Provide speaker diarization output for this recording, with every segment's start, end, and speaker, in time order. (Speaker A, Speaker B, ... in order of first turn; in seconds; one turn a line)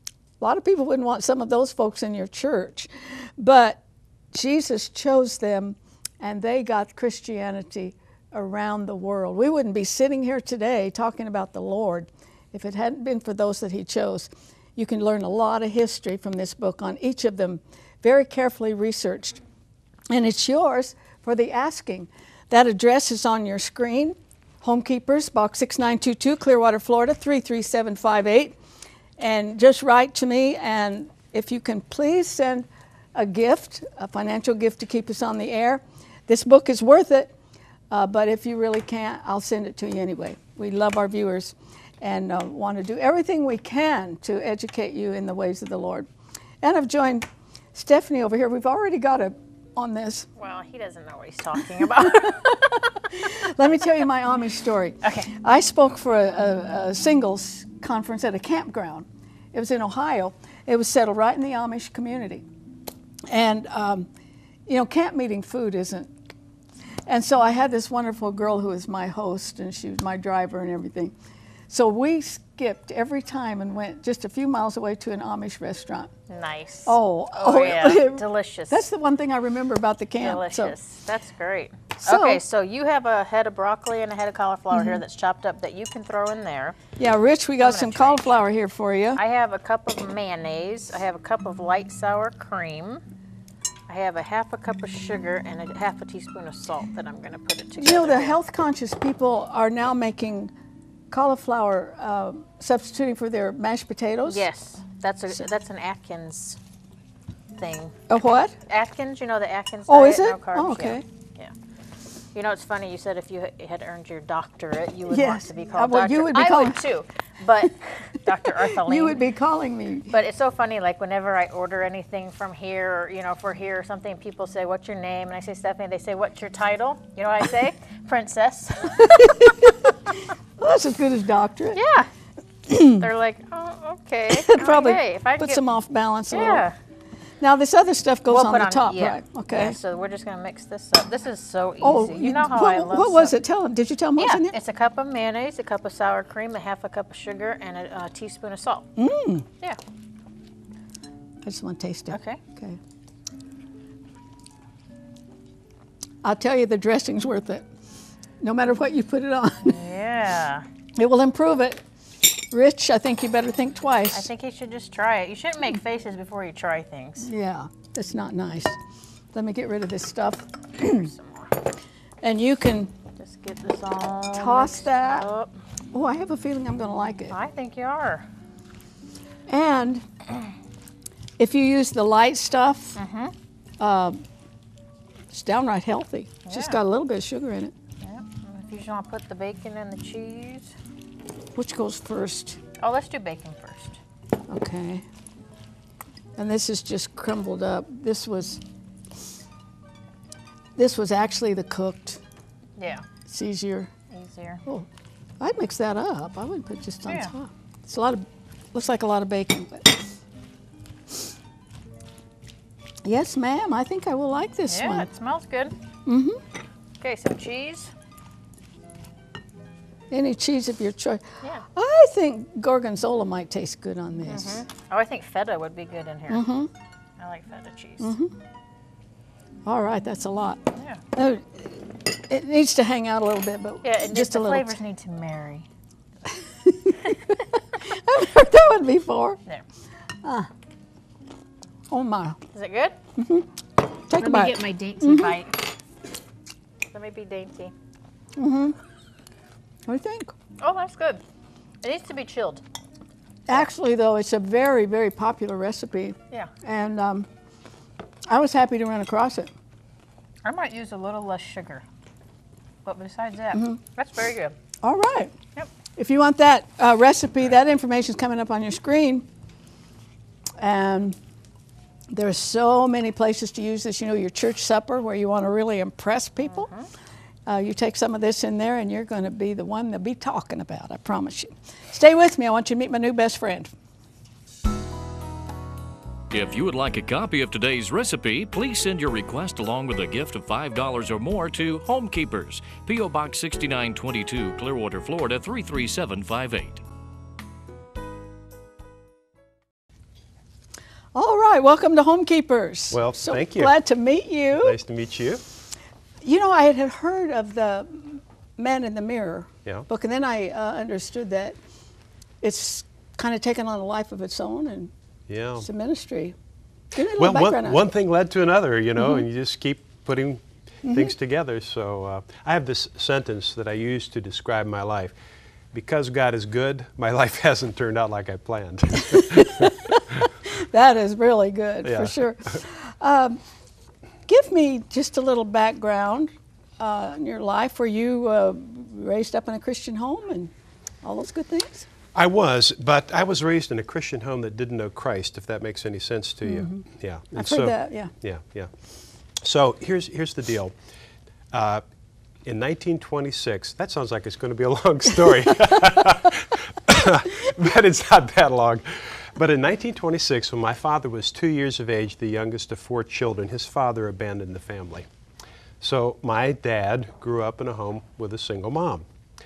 Speaker A: 0.4-3.8
Speaker A: 4.3-19.4
Speaker A: 20.1-28.5
Speaker A: 29.2-37.3
Speaker A: 37.9-46.1
Speaker A: 46.6-50.3
Speaker B: 50.4-52.8
Speaker A: 52.1-62.4
Speaker A: 63.3-64.1
Speaker A: 64.7-66.1
Speaker A: 67.1-71.1
Speaker A: 71.7-76.1
Speaker B: 76.3-78.8
Speaker A: 76.8-80.7
Speaker B: 80.2-86.8
Speaker A: 82.0-82.4
Speaker A: 84.7-85.0
Speaker A: 87.0-89.2
Speaker B: 87.6-88.4
Speaker B: 89.2-93.0
Speaker B: 93.9-98.3
Speaker A: 97.8-100.5
Speaker A: 101.1-104.4
Speaker B: 104.3-106.6
Speaker B: 107.6-108.0
Speaker A: 108.1-108.5
Speaker B: 108.6-111.5
Speaker A: 109.9-111.0
Speaker B: 112.3-119.2
Speaker A: 115.1-116.8
Speaker A: 118.6-120.1
Speaker B: 120.1-129.3
Speaker A: 129.1-129.7
Speaker A: 130.6-131.8
Speaker B: 131.7-132.1
Speaker A: 132.7-133.0
Speaker B: 132.8-135.6
Speaker A: 134.3-136.6
Speaker B: 136.3-136.7
Speaker A: 137.4-139.8
Speaker B: 138.3-143.3
Speaker A: 141.8-144.6
Speaker B: 144.2-148.9
Speaker A: 149.0-149.4
Speaker A: 151.4-152.8
Speaker B: 152.1-152.4
Speaker A: 156.2-157.6
Speaker A: 158.4-159.8
Speaker B: 159.7-160.6
Speaker A: 160.9-161.8
Speaker A: 162.5-164.3
Speaker B: 164.1-167.3
Speaker A: 167.2-168.8
Speaker A: 169.3-171.1
Speaker B: 170.8-171.5
Speaker A: 172.2-172.9
Speaker B: 173.2-175.5
Speaker A: 174.3-175.3
Speaker A: 175.9-177.3
Speaker B: 177.3-178.2
Speaker A: 179.5-180.0
Speaker A: 181.4-183.0
Speaker B: 182.9-183.3
Speaker A: 183.8-184.2
Speaker A: 185.3-187.7
Speaker B: 186.5-186.8
Speaker B: 188.0-190.7
Speaker A: 191.5-192.6
Speaker B: 192.8-194.0
Speaker A: 194.5-195.0
Speaker A: 196.3-198.6
Speaker A: 200.8-202.2
Speaker B: 202.8-203.0
Speaker A: 203.2-203.9
Speaker B: 204.1-204.6
Speaker A: 205.4-210.0
Speaker B: 207.1-207.3
Speaker A: 213.0-215.1
Speaker B: 214.7-215.7
Speaker A: 216.1-216.4
Speaker B: 217.0-217.9
Speaker A: 220.1-224.6
Speaker B: 224.3-226.4
Speaker A: 226.3-226.7
Speaker B: 227.2-228.1
Speaker A: 228.0-228.3
Speaker A: 229.7-230.6
Speaker A: 231.1-234.8
Speaker B: 233.8-235.7
Speaker A: 236.7-239.4
Speaker A: 240.2-240.5
Speaker A: 241.9-242.4
Speaker B: 242.5-242.9
Speaker A: 243.2-243.4
Speaker A: 244.1-245.4
Speaker B: 244.1-245.7
Speaker B: 246.9-247.7
Speaker A: 248.4-248.8
Speaker A: 249.9-250.3
Speaker B: 250.6-251.2
Speaker B: 251.8-252.6
Speaker A: 253.5-257.3
Speaker A: 258.3-259.5
Speaker B: 260.4-261.8
Speaker B: 262.8-264.6
Speaker A: 263.5-263.8
Speaker A: 264.8-265.3
Speaker A: 265.9-269.2
Speaker A: 270.6-271.2
Speaker A: 272.1-276.7
Speaker B: 276.5-276.9
Speaker A: 277.5-283.7
Speaker C: 286.3-296.8
Speaker A: 301.1-304.8
Speaker D: 302.9-303.7
Speaker D: 304.5-305.4
Speaker A: 306.2-311.6
Speaker A: 312.4-314.9
Speaker D: 315.3-315.6
Speaker A: 315.6-316.4
Speaker A: 316.9-317.8
Speaker D: 317.1-325.1
Speaker D: 325.7-329.7
Speaker A: 329.1-333.4
Speaker D: 331.8-332.1
Speaker A: 334.3-341.9
Speaker D: 342.1-348.7
Speaker A: 346.5-346.8
Speaker A: 347.4-348.1
Speaker D: 349.4-350.7
Speaker D: 351.5-351.8
Speaker D: 352.4-365.1
Speaker D: 365.8-369.0